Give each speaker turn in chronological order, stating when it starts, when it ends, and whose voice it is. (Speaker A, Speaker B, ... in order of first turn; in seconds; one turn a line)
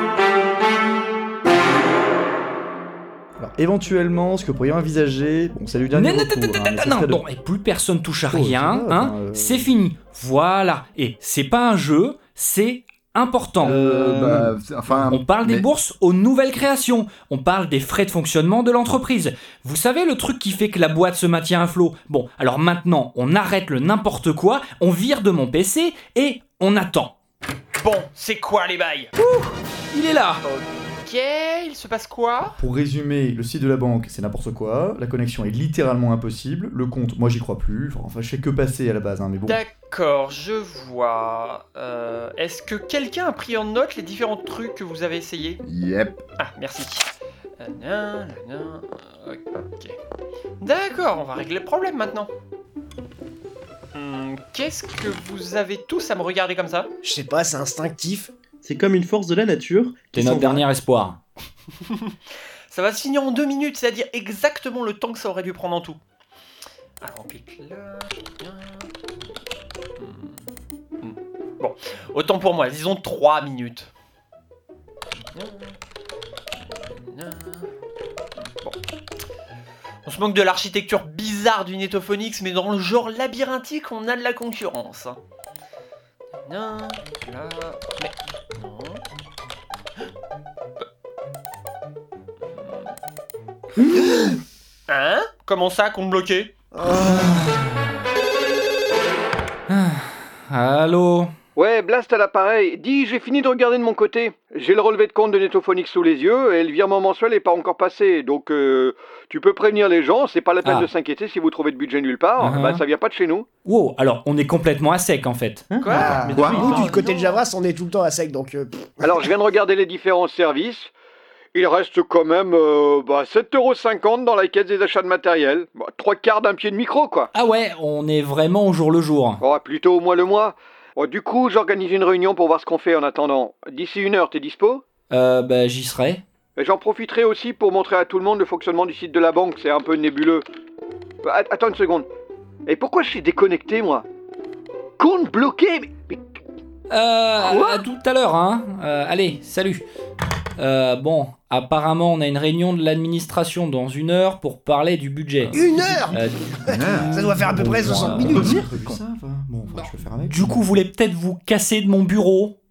Speaker A: 3.4-7.2
Speaker B: 5.9-13.8
Speaker A: 8.3-9.7
Speaker C: 13.6-15.7
Speaker A: 13.8-14.4
Speaker B: 15.1-27.1
Speaker D: 27.8-29.1
Speaker B: 29.2-30.4
Speaker D: 30.5-32.6
Speaker A: 32.6-39.6
Speaker D: 39.5-45.6
Speaker C: 45.6-46.2
Speaker D: 46.4-47.1
Speaker D: 47.6-50.0
Speaker D: 50.6-52.3
Speaker D: 54.0-56.9
Speaker E: 57.0-58.3
Speaker F: 58.6-60.6
Speaker B: 60.1-61.2
Speaker D: 62.7-66.0
Speaker D: 67.0-68.9
Speaker D: 70.0-70.3
Speaker D: 71.0-73.9
Speaker D: 75.3-75.8
Speaker D: 76.7-77.7
Speaker D: 80.1-85.2
Speaker D: 86.5-89.0
Speaker F: 93.8-94.0
Speaker D: 94.9-96.5
Speaker E: 96.7-97.5
Speaker B: 97.1-97.9
Speaker B: 99.7-101.3
Speaker G: 101.6-113.5
Speaker B: 110.6-110.9
Speaker B: 112.4-112.8
Speaker B: 113.7-115.7
Speaker F: 115.7-117.0
Speaker D: 115.8-117.4
Speaker E: 115.9-119.3
Speaker G: 119.1-120.9
Speaker G: 121.5-127.3
Speaker B: 127.3-129.4
Speaker G: 129.4-134.8
Speaker B: 135.1-136.2
Speaker G: 136.6-140.4
Speaker G: 141.2-142.1
Speaker G: 142.7-144.0
Speaker G: 145.0-146.2
Speaker B: 146.9-149.8
Speaker B: 150.6-158.6
Speaker A: 155.5-156.2
Speaker E: 155.5-158.6
Speaker C: 156.7-157.1
Speaker A: 156.9-160.6
Speaker C: 158.3-158.9
Speaker B: 159.7-162.6